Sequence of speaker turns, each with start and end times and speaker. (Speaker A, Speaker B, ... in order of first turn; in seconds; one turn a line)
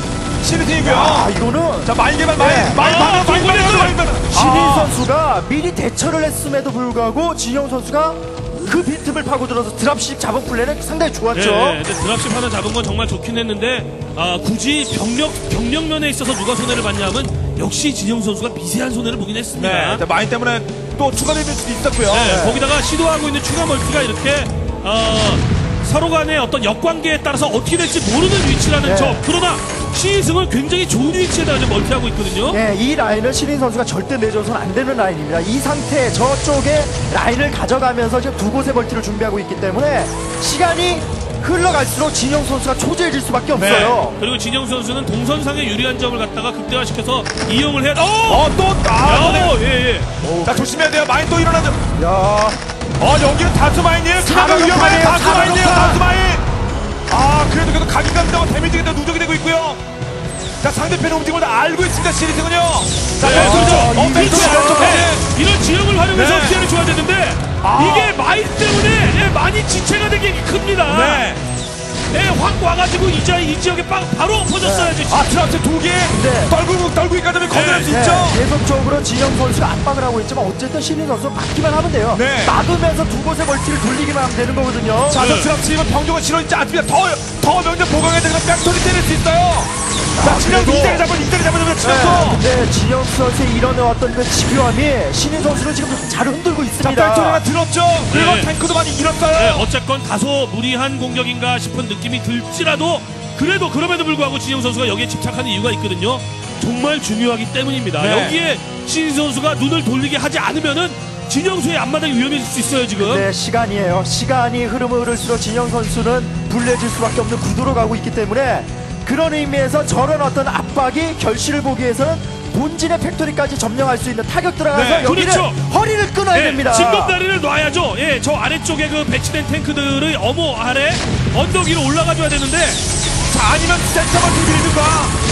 Speaker A: 0.4-4.9
Speaker B: 0.8-2.8
Speaker C: 2.7-4.0
Speaker B: 4.3-11.8
Speaker C: 11.3-20.0
Speaker A: 19.5-22.4
Speaker C: 22.1-32.6
Speaker B: 22.2-22.6
Speaker B: 28.8-29.2
Speaker B: 32.5-44.2
Speaker A: 43.5-44.0
Speaker C: 44.2-48.5
Speaker A: 48.3-49.6
Speaker C: 49.0-50.1
Speaker B: 50.2-50.7
Speaker A: 50.4-51.8
Speaker B: 52.0-52.6
Speaker A: 53.0-56.4
Speaker B: 54.2-56.0
Speaker A: 57.1-59.8
Speaker A: 60.6-65.2
Speaker C: 63.2-71.2
Speaker B: 63.3-65.1
Speaker A: 66.1-66.6
Speaker A: 67.6-68.2
Speaker A: 70.9-71.4
Speaker C: 72.1-75.3
Speaker B: 74.6-75.0
Speaker A: 75.1-78.4
Speaker B: 76.1-76.5
Speaker C: 77.5-77.9
Speaker B: 77.8-85.2
Speaker A: 82.1-82.5
Speaker A: 85.1-92.4
Speaker C: 85.1-85.5
Speaker B: 90.2-91.1
Speaker B: 91.8-97.4
Speaker A: 96.8-99.7
Speaker C: 98.1-98.5
Speaker C: 99.3-113.2
Speaker A: 108.0-108.3
Speaker B: 113.0-127.2
Speaker A: 124.7-125.1
Speaker C: 125.0-125.6
Speaker C: 126.3-132.8
Speaker A: 133.3-135.1